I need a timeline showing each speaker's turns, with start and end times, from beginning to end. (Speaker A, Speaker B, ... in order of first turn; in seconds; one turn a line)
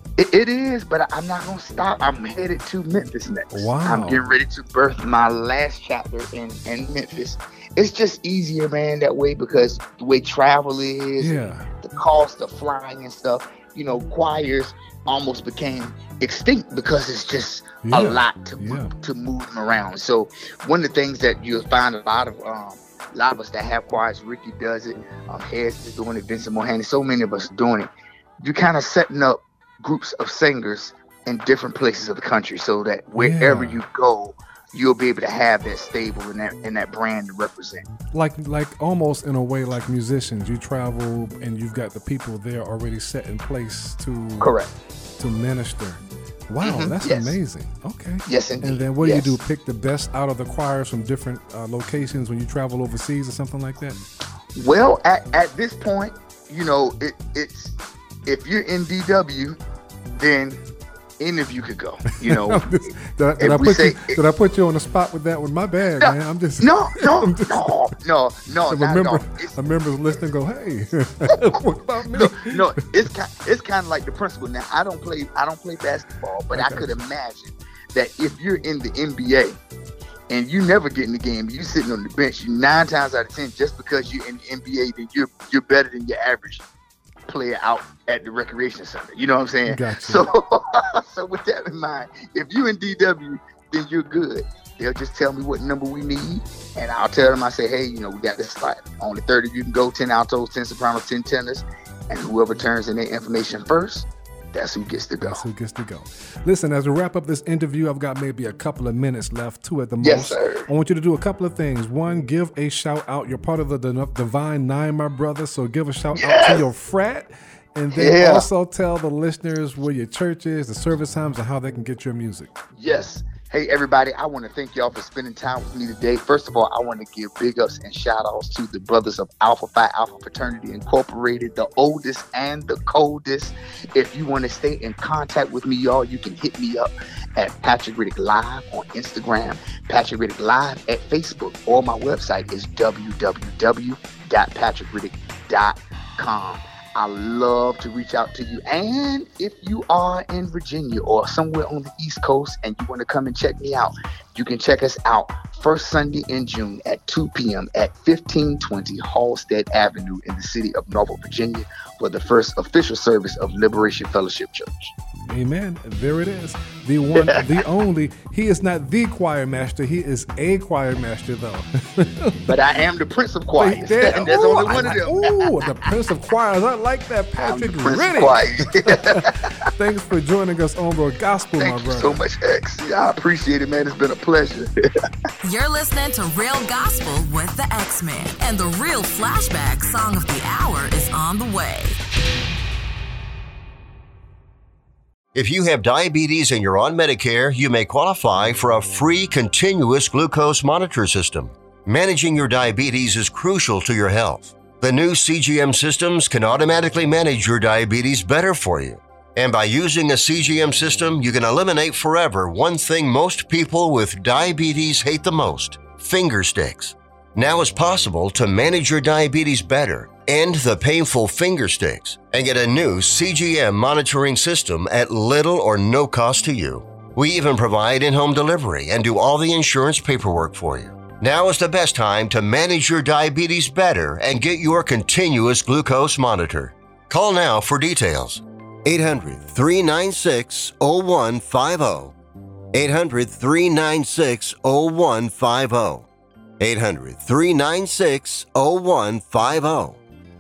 Speaker A: 0.2-27.9
Speaker B: 3.5-4.2
Speaker B: 11.2-11.7
Speaker B: 17.8-18.9
Speaker A: 28.4-37.9
Speaker B: 33.1-33.8
Speaker B: 38.1-44.6
Speaker A: 44.4-44.7
Speaker B: 45.2-54.0
Speaker A: 46.6-47.4
Speaker A: 48.3-49.4
Speaker A: 54.5-59.6
Speaker A: 60.2-60.6
Speaker A: 61.2-62.6
Speaker B: 62.1-67.9
Speaker A: 63.4-64.2
Speaker A: 66.0-69.6
Speaker B: 68.7-72.8
Speaker A: 72.1-79.6
Speaker B: 76.5-76.9
Speaker A: 80.3-86.6
Speaker A: 87.3-105.4
Speaker B: 89.6-90.2
Speaker B: 105.2-122.5
Speaker A: 110.0-110.6
Speaker A: 116.2-116.6
Speaker A: 117.9-118.5
Speaker A: 122.8-164.9
Speaker B: 165.3-172.6
Speaker A: 167.2-167.4
Speaker A: 172.5-175.1
Speaker B: 173.6-182.2
Speaker A: 177.4-179.4
Speaker A: 181.6-184.7
Speaker C: 185.4-192.0
Speaker D: 195.3-242.1
Speaker D: 242.7-246.1
Speaker D: 246.6-250.0